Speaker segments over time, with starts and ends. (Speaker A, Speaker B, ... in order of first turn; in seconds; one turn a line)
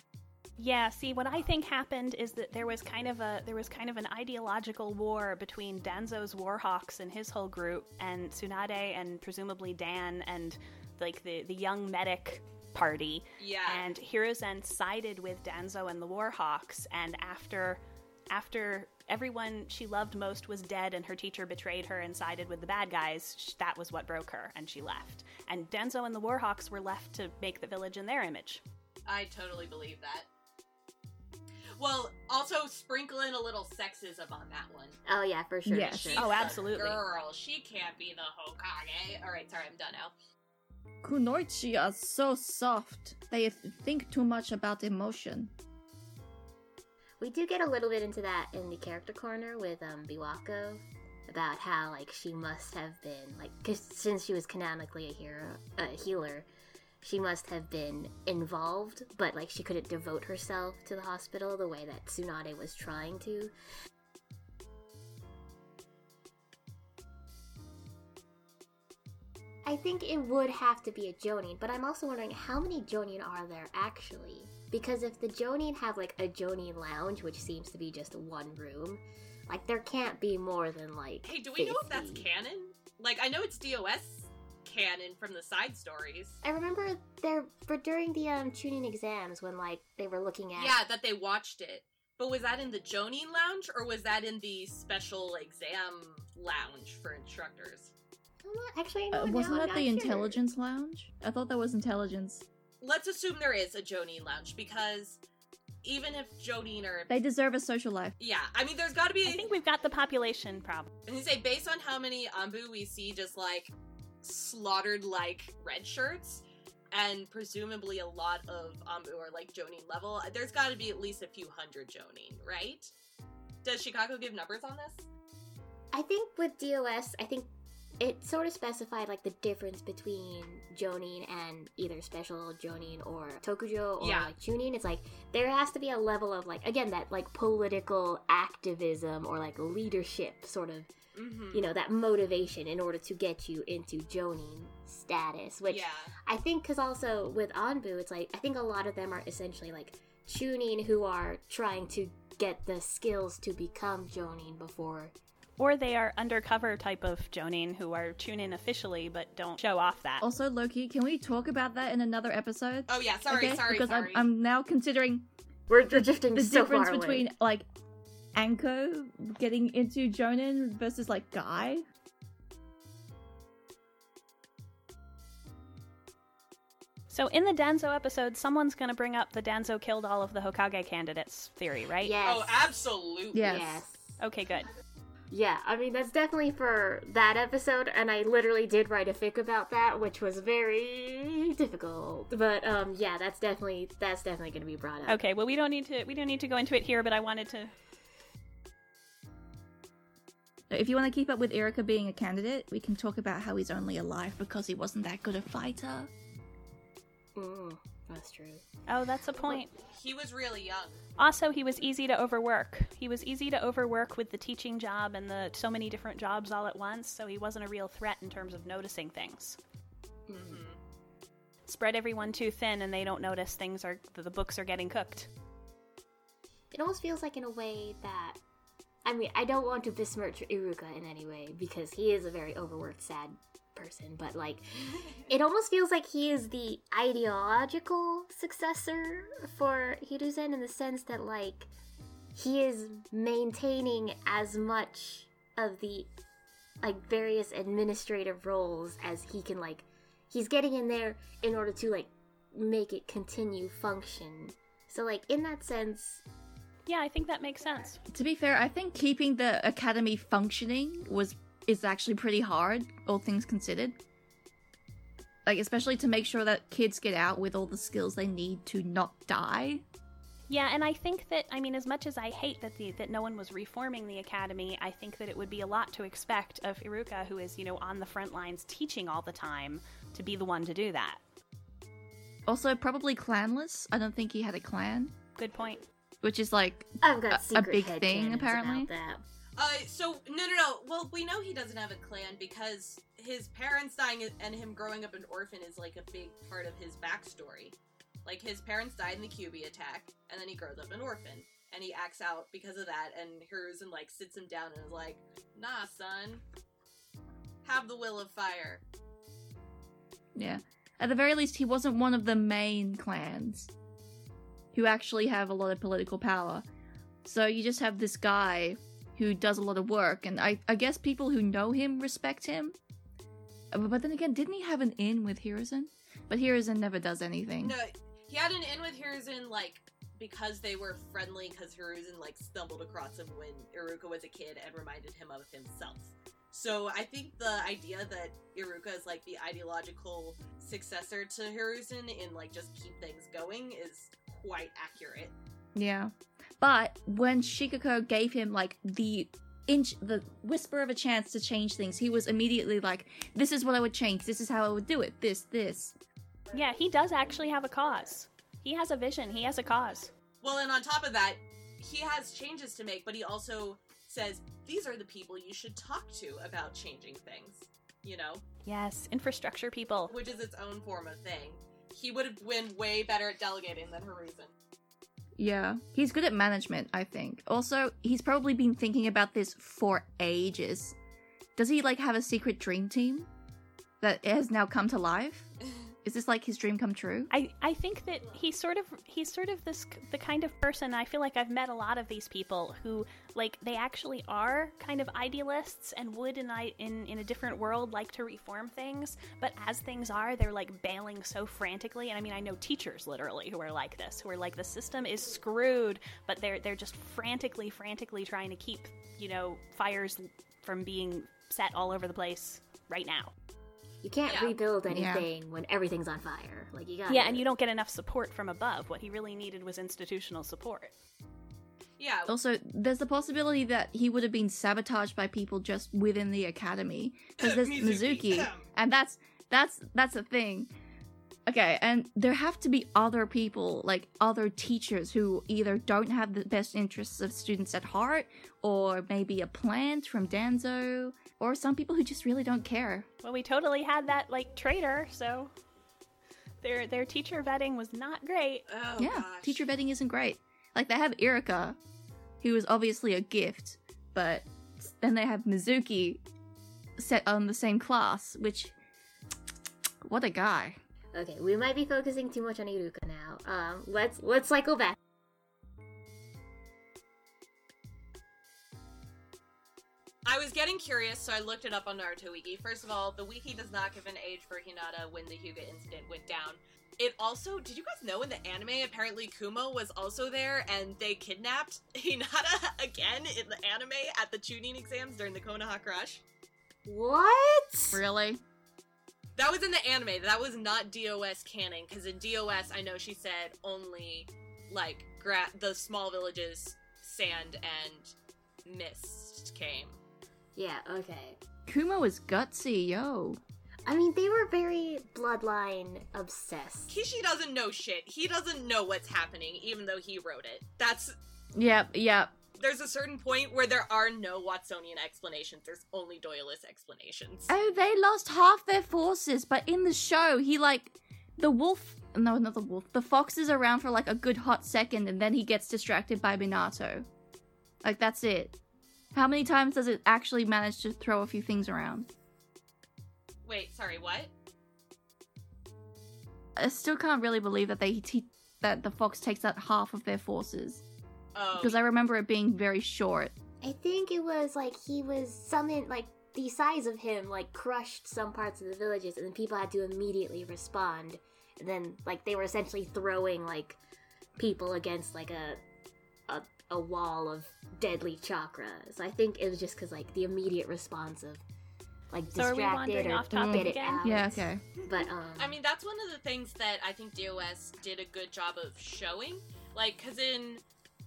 Speaker A: 0.6-28.6
Speaker B: 13.4-13.9
Speaker B: 29.1-30.3
Speaker B: 31.8-35.0
Speaker C: 35.0-36.4
Speaker D: 35.6-36.2
Speaker B: 35.9-40.1
Speaker A: 36.1-37.0
Speaker D: 41.0-45.5
Speaker C: 47.2-56.5
Speaker C: 57.0-63.5
Speaker C: 69.6-82.3
Speaker B: 81.2-86.4
Speaker C: 86.4-90.8
Speaker B: 90.5-97.9
Speaker C: 98.4-100.4
Speaker D: 99.1-102.4
Speaker B: 102.8-105.2
Speaker B: 105.8-107.1
Speaker D: 107.1-108.1
Speaker B: 108.2-109.5
Speaker A: 109.2-110.9
Speaker B: 111.0-113.7
Speaker B: 114.2-122.9
Speaker B: 123.6-125.1
Speaker C: 125.9-127.5
Speaker C: 128.0-140.9
Speaker B: 134.0-134.3
Speaker B: 141.1-141.6
Speaker C: 141.5-155.1
Speaker B: 145.7-146.1
Speaker A: 155.6-160.2
Speaker D: 160.2-165.3
Speaker B: 162.9-164.3
Speaker C: 165.7-167.3
Speaker D: 165.9-167.7
Speaker D: 168.3-171.8
Speaker A: 177.1-182.1
Speaker C: 182.0-182.7
Speaker B: 182.2-183.5
Speaker D: 183.3-183.8
Speaker C: 183.4-184.2
Speaker A: 184.2-184.7
Speaker C: 185.3-195.2
Speaker A: 195.1-197.7
Speaker D: 200.7-206.1
Speaker C: 207.3-208.6
Speaker A: 208.9-209.7
Speaker B: 209.8-211.0
Speaker A: 211.2-219.6
Speaker C: 220.3-220.6
Speaker B: 220.4-220.8
Speaker A: 221.7-225.3
Speaker C: 226.7-228.4
Speaker C: 229.0-241.7
Speaker C: 242.3-246.1
Speaker C: 246.8-256.2
Speaker A: 256.9-258.0
Speaker D: 258.1-263.9
Speaker D: 265.4-269.8
Speaker A: 270.5-281.2
Speaker D: 282.5-285.1
Speaker A: 285.4-285.9
Speaker D: 286.2-288.9
Speaker C: 287.0-289.2
Speaker B: 289.6-306.4
Speaker B: 307.6-308.8
Speaker D: 310.3-313.7
Speaker D: 314.7-316.6
Speaker D: 317.2-322.8
Speaker D: 323.7-327.8
Speaker B: 327.6-345.3
Speaker D: 345.7-355.9
Speaker A: 356.5-360.1
Speaker B: 360.4-368.4
Speaker A: 368.6-370.1
Speaker B: 370.1-374.5
Speaker D: 375.4-380.9
Speaker D: 381.6-383.3
Speaker D: 384.0-385.5
Speaker B: 385.6-385.9
Speaker D: 386.0-387.3
Speaker A: 387.3-413.3
Speaker C: 414.0-417.4
Speaker B: 414.2-414.6
Speaker D: 414.9-415.3
Speaker A: 417.1-420.9
Speaker B: 422.0-422.3
Speaker D: 422.3-430.7
Speaker B: 427.4-428.6
Speaker D: 431.4-443.1
Speaker A: 443.2-445.5
Speaker A: 446.6-448.6
Speaker B: 448.7-449.6
Speaker D: 449.0-451.8
Speaker D: 452.4-456.2
Speaker D: 457.0-458.7
Speaker D: 460.0-460.8
Speaker C: 461.1-464.9
Speaker B: 470.2-486.2
Speaker C: 486.9-488.0
Speaker D: 487.9-488.4
Speaker B: 489.4-498.1
Speaker B: 498.6-500.0
Speaker C: 500.6-501.4
Speaker D: 501.6-503.4
Speaker C: 503.9-506.9
Speaker B: 506.9-511.1
Speaker D: 511.5-512.3
Speaker B: 512.6-517.5
Speaker D: 517.5-527.0
Speaker D: 527.8-528.5
Speaker D: 529.1-532.1
Speaker B: 533.4-534.3
Speaker D: 536.6-540.8
Speaker B: 541.3-541.8
Speaker D: 541.5-543.3
Speaker C: 543.6-553.8
Speaker C: 554.4-555.6
Speaker C: 556.3-561.4
Speaker C: 562.1-565.5
Speaker A: 562.3-564.3
Speaker D: 563.3-564.6
Speaker B: 565.4-570.6